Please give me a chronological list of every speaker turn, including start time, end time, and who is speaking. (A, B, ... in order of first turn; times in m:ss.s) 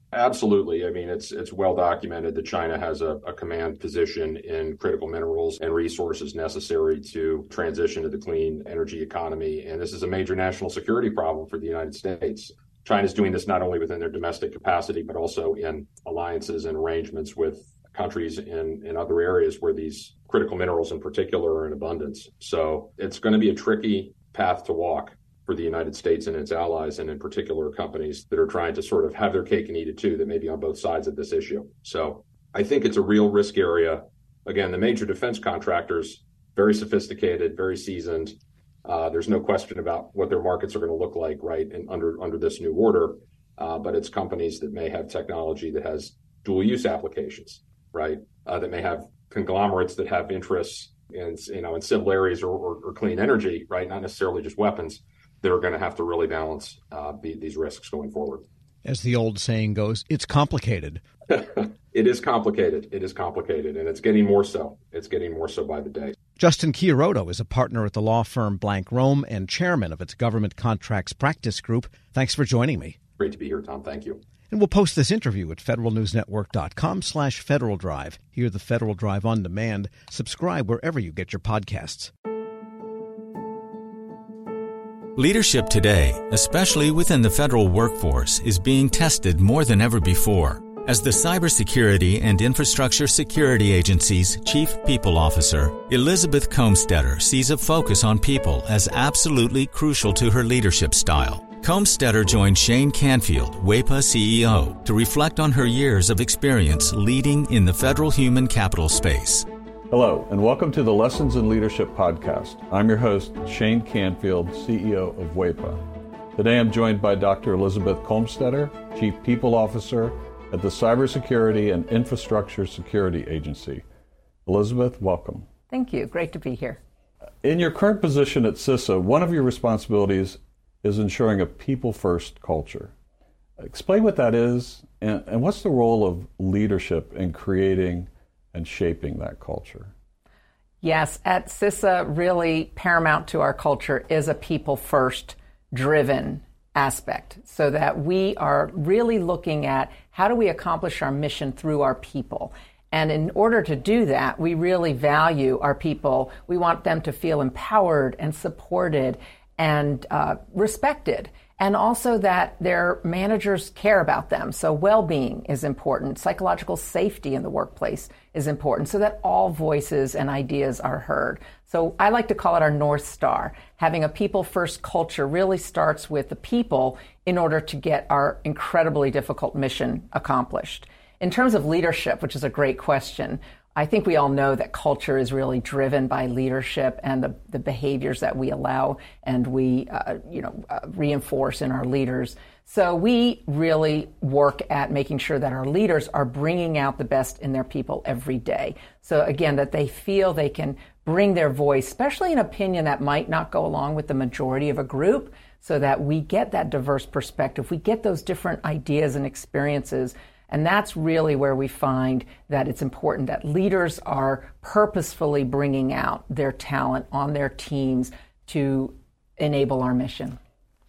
0:00.1-0:58.4 A
0:58.8-1:01.0 B
1:01.3-1:06.2 A
1:06.4-1:13.0 B
1:13.2-1:14.2 A
1:14.5-1:22.1 B
1:25.2-1:49.5 C
1:49.9-1:55.8 D
1:56.4-2:03.8 D
2:04.5-2:05.5 D
2:05.7-2:06.8 E
2:07.4-2:12.9 D
2:13.6-2:19.9 D
2:20.8-3:40.4 E